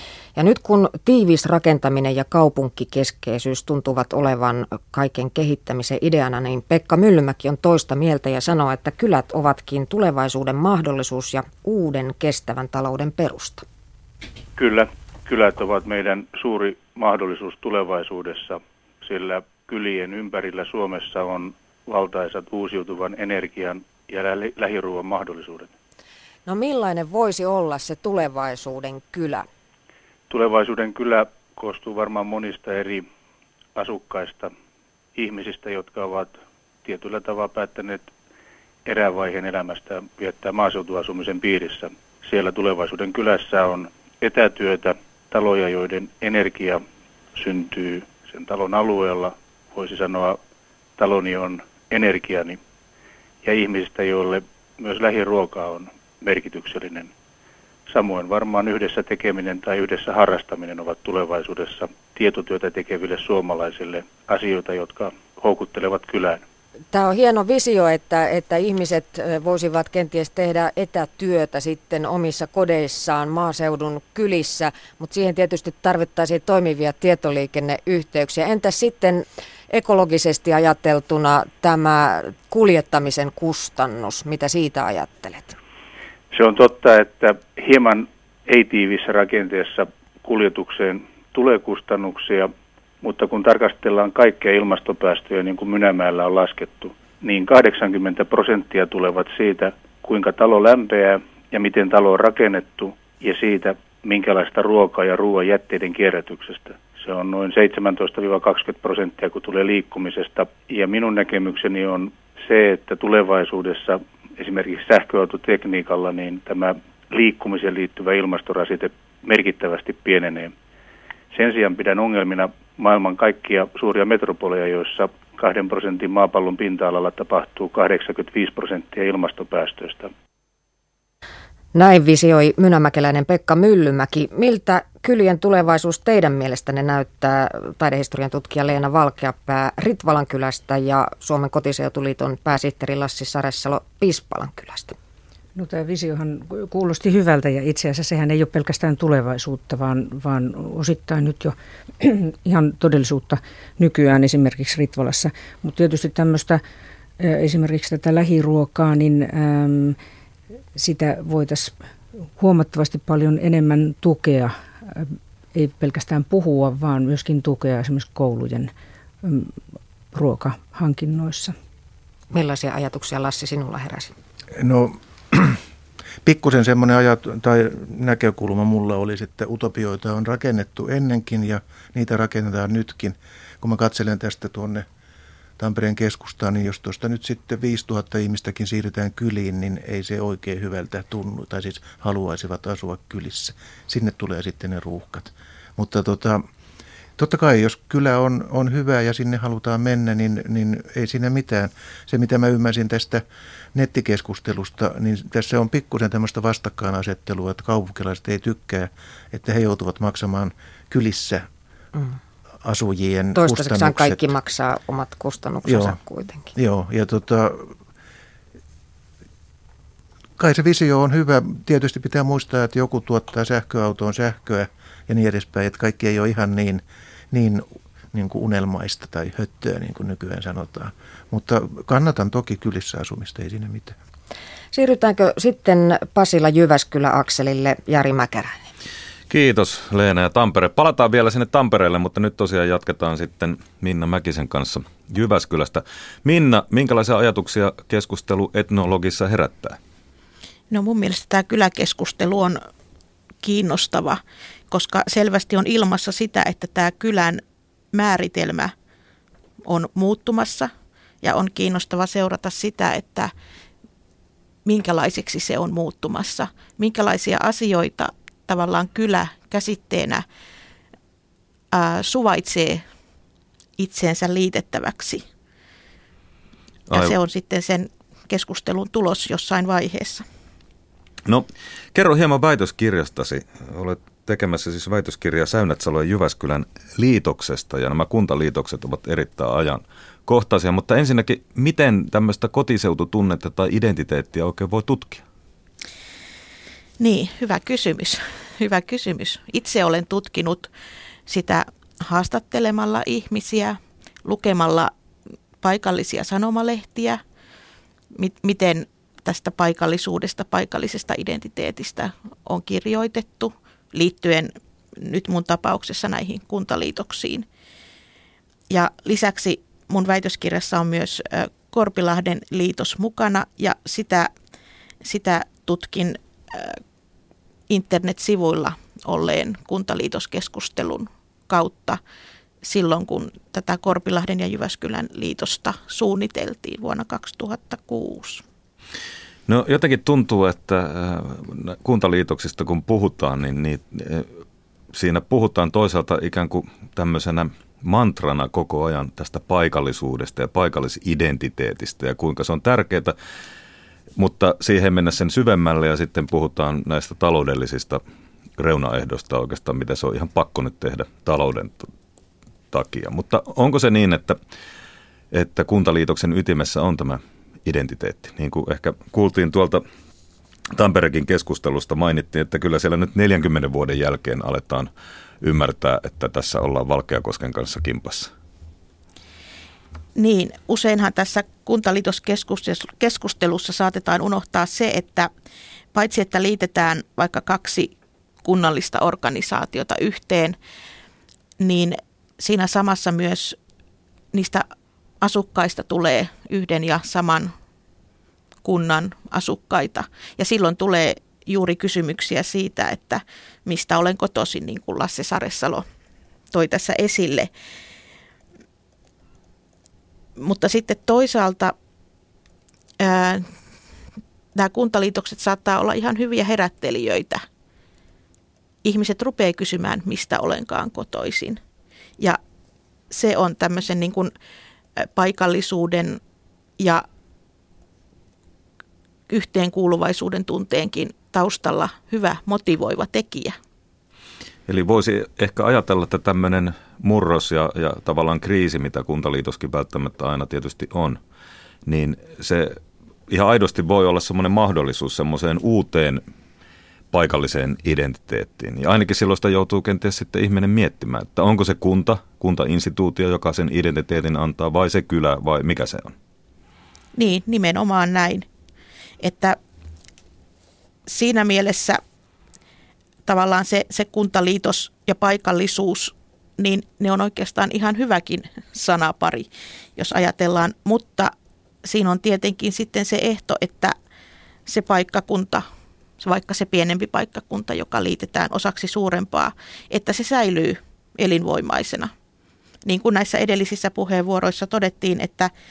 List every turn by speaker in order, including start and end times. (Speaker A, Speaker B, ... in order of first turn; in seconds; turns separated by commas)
Speaker A: 0.3-13.6, Speaker B: 14.6-25.7, Speaker A: 26.4-29.4, Speaker B: 30.3-33.0, Speaker B: 33.7-34.5, Speaker B: 35.1-38.1, Speaker B: 38.8-46.8, Speaker B: 47.3-50.4, Speaker B: 51.0-52.6, Speaker B: 53.4-57.1, Speaker B: 57.9-66.4, Speaker A: 66.9-85.6, Speaker B: 86.3-120.5, Speaker B: 121.3-130.1, Speaker A: 131.7-144.9, Speaker C: 145.6-156.6, Speaker C: 157.2-160.0, Speaker C: 160.7-161.8, Speaker C: 162.4-168.7, Speaker C: 169.2-169.5, Speaker C: 170.1-171.5, Speaker A: 172.3-174.1, Speaker D: 174.6-175.6, Speaker D: 176.2-184.8, Speaker D: 185.6-196.4, Speaker D: 197.2-203.2, Speaker D: 203.7-211.5, Speaker D: 212.6-214.2, Speaker A: 213.3-216.5, Speaker D: 215.7-216.0, Speaker D: 216.5-217.7, Speaker D: 220.4-234.0, Speaker A: 234.7-238.6, Speaker E: 239.3-249.8, Speaker F: 250.7-252.6, Speaker F: 253.4-257.4, Speaker F: 257.9-258.7, Speaker F: 259.6-260.7, Speaker F: 261.2-263.3, Speaker F: 264.6-270.2, Speaker F: 271.7-272.8, Speaker F: 273.8-275.2, Speaker E: 276.9-277.1, Speaker F: 276.9-280.2, Speaker E: 281.2-295.2, Speaker F: 297.0-300.7, Speaker F: 301.3-304.9, Speaker F: 305.6-307.2, Speaker F: 308.1-317.4, Speaker F: 318.7-324.3, Speaker F: 325.0-326.8, Speaker F: 327.7-332.0, Speaker F: 332.6-338.4, Speaker E: 339.5-344.3, Speaker E: 344.9-353.1, Speaker E: 354.1-358.0, Speaker E: 358.6-361.9, Speaker E: 362.7-364.4, Speaker E: 365.3-369.8, Speaker E: 370.7-374.9, Speaker E: 375.4-378.3, Speaker F: 380.1-385.3, Speaker F: 385.9-390.6, Speaker F: 391.6-393.6, Speaker F: 394.3-394.6, Speaker F: 395.2-397.5, Speaker F: 398.6-405.8, Speaker F: 406.5-407.5, Speaker F: 410.4-411.7, Speaker F: 413.0-413.5, Speaker F: 414.5-417.4, Speaker F: 418.8-421.6, Speaker F: 423.1-424.3, Speaker F: 425.0-426.2, Speaker F: 426.8-427.0, Speaker F: 429.3-433.6, Speaker E: 434.7-441.2, Speaker E: 441.8-446.2, Speaker E: 447.1-456.1, Speaker F: 457.1-458.4, Speaker F: 459.2-459.6, Speaker F: 461.1-462.0, Speaker F: 463.2-471.3, Speaker F: 471.8-473.9, Speaker F: 474.7-475.6, Speaker F: 476.2-482.1, Speaker F: 482.8-485.5